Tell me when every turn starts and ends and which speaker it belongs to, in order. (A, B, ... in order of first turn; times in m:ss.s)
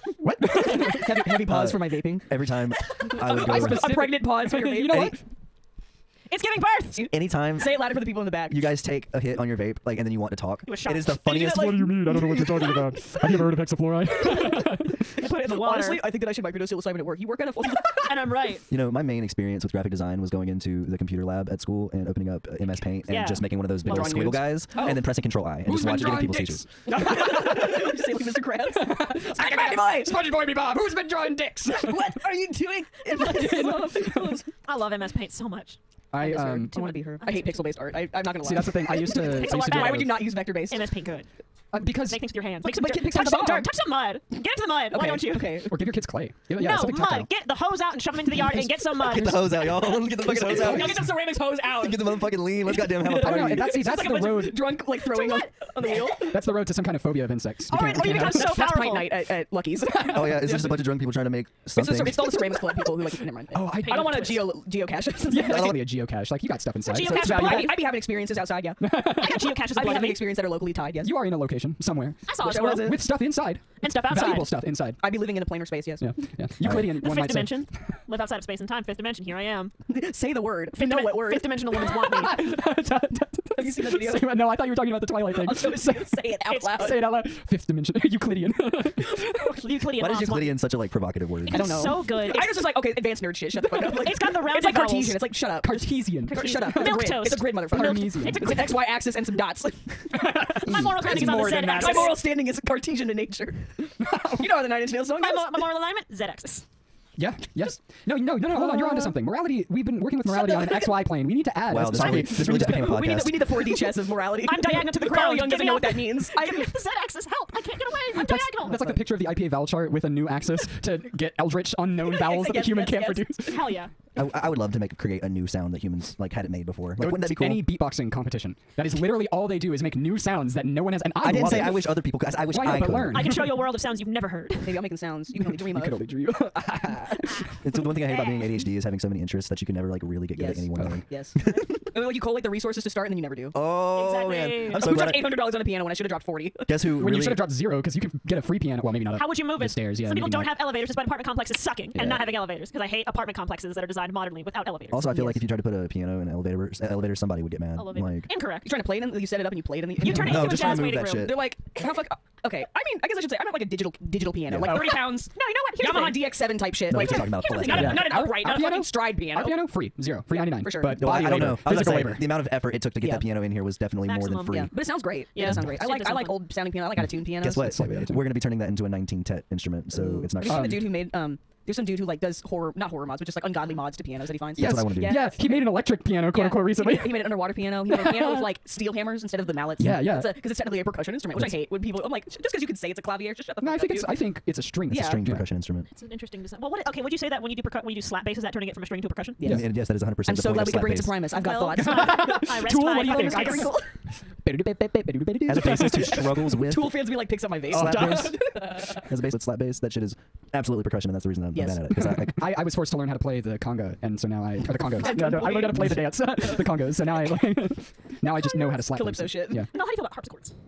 0:00.2-0:01.2 A
0:00.4-0:02.3 B
0:01.2-0:03.9 C
0:03.0-0:05.2 B
0:03.1-0:05.2 A
0:04.9-0:05.2 C
0:06.3-0:07.1 D
0:07.0-0:08.7 B
0:07.1-0:12.0 C
0:10.6-0:11.2 D
0:11.3-0:15.1 A
0:15.1-0:16.1 D
0:15.1-0:18.1 B
0:17.8-0:18.6 D
0:18.7-0:26.7 C
0:23.1-0:24.5 D
0:23.8-0:25.0 B
0:25.6-0:28.1 A
0:26.9-0:30.3 B
0:28.7-0:32.2 A
0:31.7-0:34.5 B
0:33.1-0:34.3 A
0:33.6-0:35.8 D
0:36.1-0:36.7 A
0:36.2-0:40.8 B
0:36.4-0:37.7 D
0:38.4-0:40.3 A
0:38.9-0:41.3 D
0:41.7-0:42.2 A
0:41.8-0:45.7 D
0:42.6-0:43.7 B
0:44.9-0:45.8 B
0:45.7-0:47.3 A
0:46.5-0:50.0 D
0:48.8-0:53.9 C
0:49.0-0:49.7 A
0:50.0-0:56.5 B
0:50.3-0:51.0 A
0:53.0-0:54.9 A
0:55.0-0:56.0 D
0:56.2-0:58.6 A
0:57.7-1:00.9 B
0:57.7-0:59.2 D
0:59.9-1:02.5 C
1:01.7-1:05.9 B
1:03.5-1:04.5 A
1:03.9-1:04.4 D
1:05.3-1:07.9 A
1:05.4-1:05.8 C
1:06.8-1:07.9 D
1:07.0-1:11.2 B
1:08.8-1:09.6 A
1:09.0-1:10.4 D
1:11.0-1:15.2 A
1:12.3-1:13.0 D
1:12.4-1:13.0 B
1:13.8-1:14.5 D
1:15.0-1:16.1 B
1:16.0-1:17.6 A
1:16.7-1:19.7 D
1:19.9-1:22.0 B
1:20.7-1:22.5 D
1:22.0-1:29.6 A
1:23.5-1:24.5 B
1:25.3-1:27.1 B
1:26.5-1:27.0 D
1:29.0-1:30.6 D
1:29.9-1:32.0 C
1:31.4-1:32.8 D
1:31.5-1:45.7 B
1:33.7-1:35.3 D
1:35.6-1:38.6 A
1:36.3-1:38.8 D
1:40.1-1:42.2 A
1:40.4-1:42.3 D
1:44.0-1:44.5 A
1:45.0-1:46.6 D
1:47.2-1:53.0 A
1:48.5-1:49.1 B
1:50.2-1:51.0 B
1:51.6-1:53.6 C
1:51.9-1:56.8 B
1:54.4-1:58.9 D
1:58.1-2:03.8 A
1:58.7-1:59.0 B
2:02.0-2:03.4 B
2:03.5-2:03.9 D
2:04.1-2:07.8 C
2:07.0-2:13.6 A
2:11.2-2:13.4 C
2:12.8-2:14.9 D
2:14.6-2:16.0 B
2:15.4-2:17.5 A
2:17.5-2:18.5 D
2:17.6-2:21.6 C
2:20.3-2:23.6 B
2:23.5-2:25.5 C
2:23.9-2:25.1 D
2:24.7-2:26.7 B
2:26.6-2:27.5 C
2:26.9-2:30.5 A
2:29.1-2:35.1 D
2:31.9-2:32.2 C
2:34.9-2:38.3 C
2:35.0-2:35.4 B
2:37.8-2:38.7 D
2:38.6-2:49.7 B
2:40.0-2:41.4 D
2:40.0-2:41.5 C
2:44.4-2:44.9 C
2:44.7-2:46.4 D
2:46.9-2:48.1 C
2:47.2-2:48.6 D
2:47.6-2:52.3 A
2:50.3-2:51.4 B
2:51.0-2:54.7 C
2:53.0-2:53.3 B
2:54.0-2:54.8 D
2:54.5-2:57.7 B
2:55.3-2:56.5 D
2:57.3-2:58.3 A
2:57.4-3:00.9 C
2:59.9-3:05.8 B
3:00.4-3:01.0 A
3:04.6-3:05.3 C
3:04.6-3:08.6 A
3:06.3-3:14.2 B
3:09.8-3:10.4 A
3:13.6-3:15.4 A
3:14.9-3:15.9 C
3:14.9-3:15.2 B
3:15.9-3:19.4 D
3:19.4-3:22.4 B
3:19.4-3:21.2 C
3:21.3-3:23.8 D
3:21.7-3:23.8 A
3:23.0-3:23.9 B
3:24.4-3:26.6 A
3:25.4-3:27.0 C
3:25.8-3:29.1 B
3:27.7-3:28.6 A
3:27.7-3:32.6 C
3:31.5-3:31.8 B
3:31.9-3:39.7 A
3:35.0-3:35.9 D
3:35.0-3:36.0 B
3:38.8-3:39.7 B
3:39.7-3:40.5 D